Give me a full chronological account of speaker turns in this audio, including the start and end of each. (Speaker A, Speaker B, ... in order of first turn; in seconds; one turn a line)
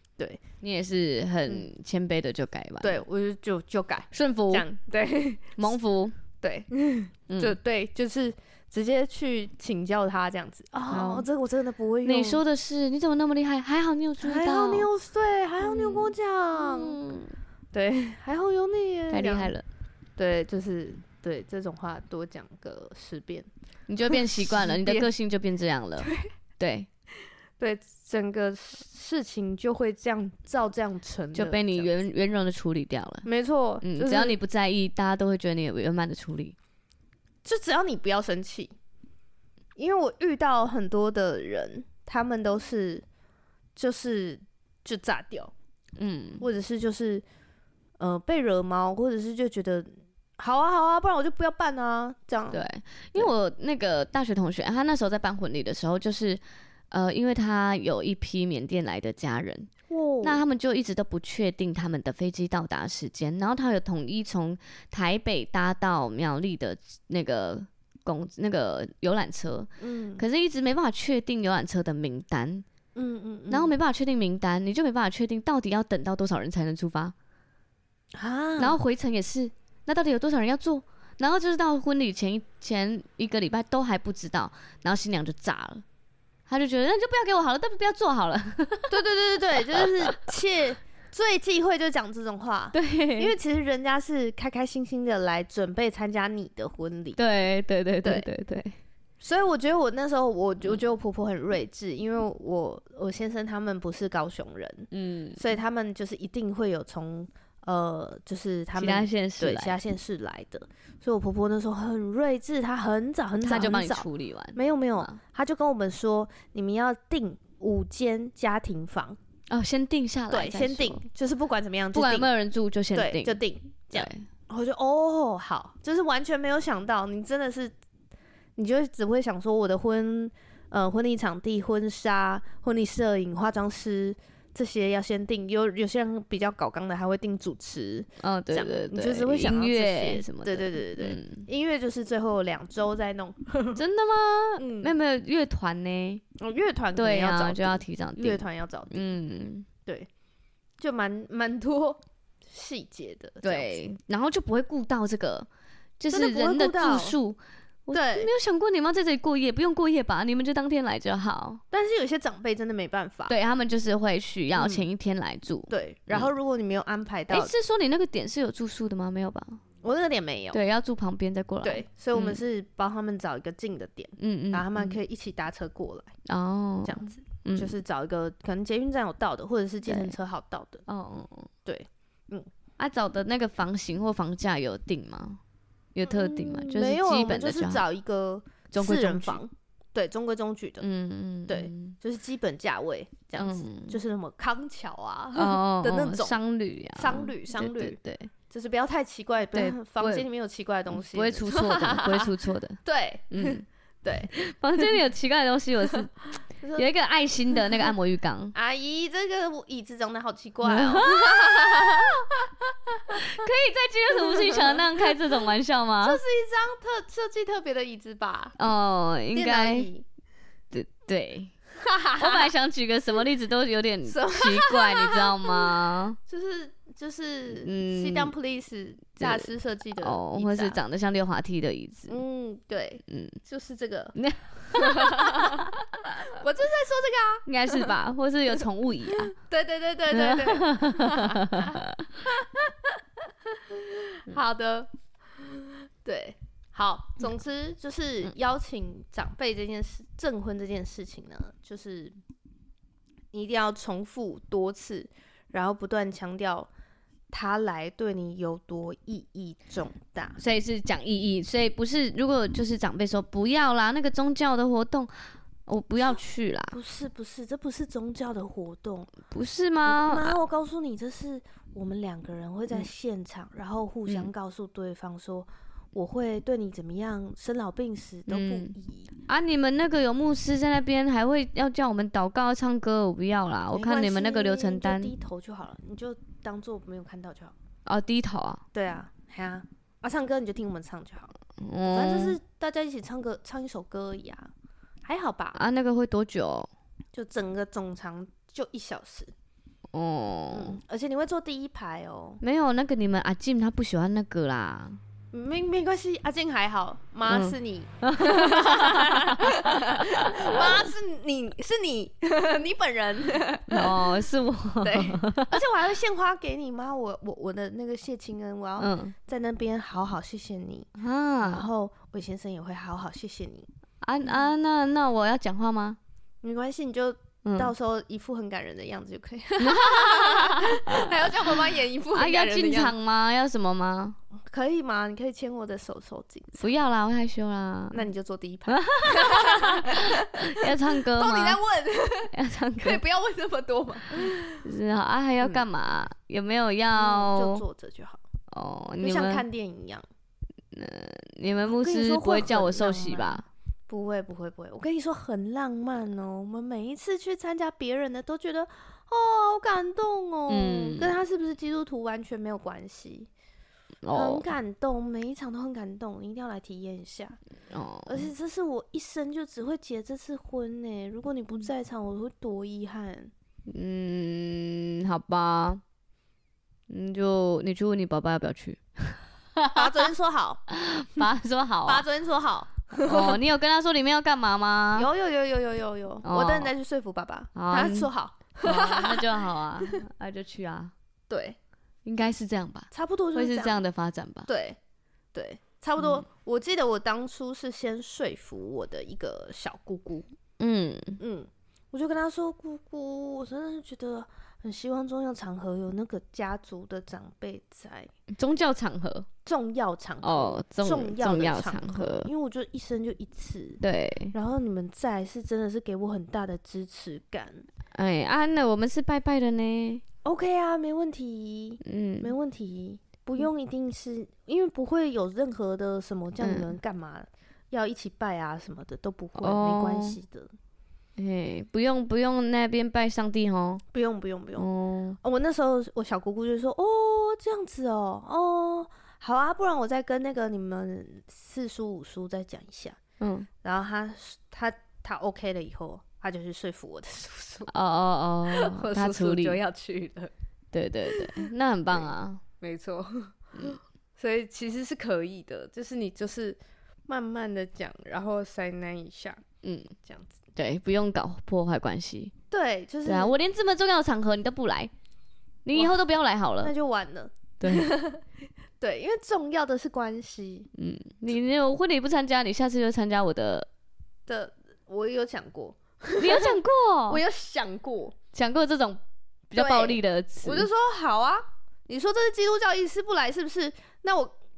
Speaker A: 0.6-3.0
Speaker B: 2.8-5.7
Speaker A: 4.1-4.7
Speaker A: 5.6-6.1
Speaker B: 6.4-12.4
Speaker A: 7.3-7.5
Speaker A: 10.9-11.3
Speaker A: 12.0-14.9
Speaker B: 14.2-17.0
Speaker A: 15.6-17.4
Speaker B: 17.7-19.5
Speaker A: 19.1-19.6
Speaker B: 20.2-23.5
Speaker A: 23.9-26.9
Speaker B: 24.1-25.1
Speaker B: 26.0-26.3
Speaker B: 27.6-31.9
Speaker A: 31.3-33.3
Speaker B: 33.2-34.4
Speaker A: 33.8-36.5
Speaker B: 37.4-38.7
Speaker B: 39.8-43.0
Speaker B: 43.8-45.5
Speaker A: 46.0-46.4
Speaker B: 46.4-47.2
Speaker B: 48.0-53.3
Speaker A: 52.5-59.7
Speaker B: 59.9-60.4
Speaker A: 60.2-72.6
Speaker B: 69.8-70.2
Speaker B: 72.9-73.7
Speaker A: 73.5-77.1
Speaker B: 78.1-78.8
Speaker A: 78.6-85.8
Speaker A: 86.5-89.0
Speaker B: 88.9-97.2
Speaker A: 89.7-90.3
Speaker A: 92.7-93.3
Speaker A: 97.2-98.8
Speaker B: 98.0-98.3
Speaker B: 99.2-119.2
Speaker A: 104.9-105.4
Speaker A: 108.8-109.8
Speaker A: 113.4-115.2
Speaker A: 119.5-121.0
Speaker B: 120.3-122.3
Speaker A: 121.9-124.2
Speaker B: 122.9-127.7
Speaker B: 128.6-143.8
Speaker A: 138.2-141.5
Speaker A: 143.8-146.2
Speaker B: 144.6-144.9
Speaker B: 146.4-149.1
Speaker A: 146.9-149.7
Speaker B: 150.8-153.8
Speaker A: 153.4-155.5
Speaker A: 156.0-161.6
Speaker B: 156.1-157.2
Speaker B: 157.9-158.3
Speaker B: 161.7-163.3
Speaker A: 163.3-166.3
Speaker B: 164.6-164.8
Speaker B: 165.7-167.5
Speaker A: 167.3-169.6
Speaker B: 169.8-170.6
Speaker A: 170.5-172.4
Speaker B: 171.6-176.1
Speaker A: 174.2-175.0
Speaker A: 176.2-177.7
Speaker B: 176.8-180.8
Speaker A: 179.8-180.2
Speaker A: 180.9-181.5
Speaker B: 181.6-182.5
Speaker A: 182.8-185.4
Speaker A: 185.9-187.8
Speaker B: 186.0-190.8
Speaker A: 188.7-189.4
Speaker A: 190.8-191.9
Speaker B: 191.5-196.4
Speaker A: 193.3-194.0
Speaker A: 195.3-198.3
Speaker B: 196.9-198.0
Speaker B: 198.5-204.3
Speaker A: 199.5-200.2
Speaker A: 200.9-202.8
Speaker A: 203.3-203.6
Speaker A: 204.3-206.1
Speaker B: 206.6-206.8
Speaker A: 206.8-208.5
Speaker B: 208.5-213.3
Speaker A: 210.6-212.1
Speaker A: 213.1-216.2
Speaker B: 214.2-215.1
Speaker B: 216.0-218.6
Speaker A: 218.6-219.9
Speaker B: 219.3-220.0
Speaker A: 220.7-221.5
Speaker B: 221.8-222.5
Speaker A: 222.2-226.2
Speaker B: 224.1-225.7
Speaker B: 226.2-230.8
Speaker A: 227.6-228.3
Speaker A: 229.2-232.1
Speaker B: 232.1-234.1
Speaker A: 233.1-233.3
Speaker A: 234.1-235.7
Speaker B: 234.7-237.9
Speaker A: 237.4-239.3
Speaker B: 239.1-243.0
Speaker A: 240.1-242.1
Speaker B: 243.5-252.1
Speaker B: 253.3-256.7
Speaker B: 257.3-260.4
Speaker A: 260.4-266.8
Speaker B: 266.7-269.1
Speaker A: 269.3-270.4
Speaker B: 269.9-279.1
Speaker A: 278.3-278.7
Speaker A: 279.3-285.1
Speaker B: 283.7-287.5
Speaker A: 287.9-288.6
Speaker B: 288.7-291.3
Speaker A: 291.6-292.4
Speaker B: 291.8-294.5
Speaker B: 295.0-295.6
Speaker A: 295.6-296.7
Speaker B: 297.1-299.3
Speaker A: 299.9-300.8
Speaker B: 300.5-302.4
Speaker A: 302.4-305.0
Speaker B: 305.3-314.1
Speaker A: 307.3-310.9
Speaker A: 313.7-315.6
Speaker B: 314.8-320.9
Speaker A: 318.8-319.1
Speaker A: 321.0-321.7
Speaker B: 321.4-323.7
Speaker A: 324.0-326.0
Speaker B: 326.4-332.9
Speaker A: 327.4-327.7
Speaker A: 329.6-334.2
Speaker B: 334.4-336.7
Speaker A: 336.6-338.1
Speaker B: 337.9-344.6
Speaker A: 338.7-341.6
Speaker A: 342.3-343.0
Speaker A: 344.2-347.6
Speaker B: 346.9-348.2
Speaker A: 348.5-349.4
Speaker B: 349.0-350.0
Speaker A: 350.7-353.4
Speaker B: 351.6-363.3
Speaker A: 360.5-361.1
Speaker A: 364.0-364.5
Speaker B: 364.1-367.4
Speaker A: 367.7-368.3
Speaker B: 368.1-373.3
Speaker A: 373.7-375.8
Speaker A: 376.9-380.1
Speaker B: 379.7-380.6
Speaker A: 380.7-382.0
Speaker B: 381.9-383.4
Speaker A: 383.0-385.1
Speaker B: 384.9-390.0
Speaker A: 386.2-386.7
Speaker A: 387.5-390.9
Speaker B: 391.3-391.6
Speaker A: 392.0-394.5
Speaker B: 392.9-393.8
Speaker B: 394.5-394.8
Speaker B: 395.3-400.3
Speaker A: 396.0-396.2
Speaker A: 400.6-401.2
Speaker B: 401.2-408.1
Speaker A: 408.3-409.3
Speaker B: 409.4-413.8
Speaker A: 410.2-412.3
Speaker A: 413.8-414.3
Speaker B: 414.3-417.6
Speaker A: 417.9-420.0
Speaker B: 420.2-430.5
Speaker A: 421.8-422.3
Speaker A: 426.4-426.7
Speaker A: 429.4-430.2
Speaker A: 431.2-433.8
Speaker B: 433.9-434.7
Speaker A: 434.6-435.2
Speaker B: 435.2-443.0
Speaker A: 443.2-443.5
Speaker B: 443.6-447.7
Speaker A: 447.7-449.6
Speaker B: 448.5-450.3
Speaker A: 450.7-452.4
Speaker B: 451.1-452.1
Speaker B: 452.6-459.4
Speaker A: 459.6-459.9
Speaker B: 460.0-460.3
Speaker A: 460.6-462.3
Speaker B: 462.5-463.4
Speaker A: 463.0-464.9
Speaker A: 465.6-466.7
Speaker B: 466.6-468.2
Speaker A: 467.6-467.9
Speaker B: 468.8-470.7
Speaker A: 470.8-473.7
Speaker B: 474.3-478.1
Speaker A: 476.2-477.2
Speaker A: 478.3-480.7
Speaker B: 479.6-484.3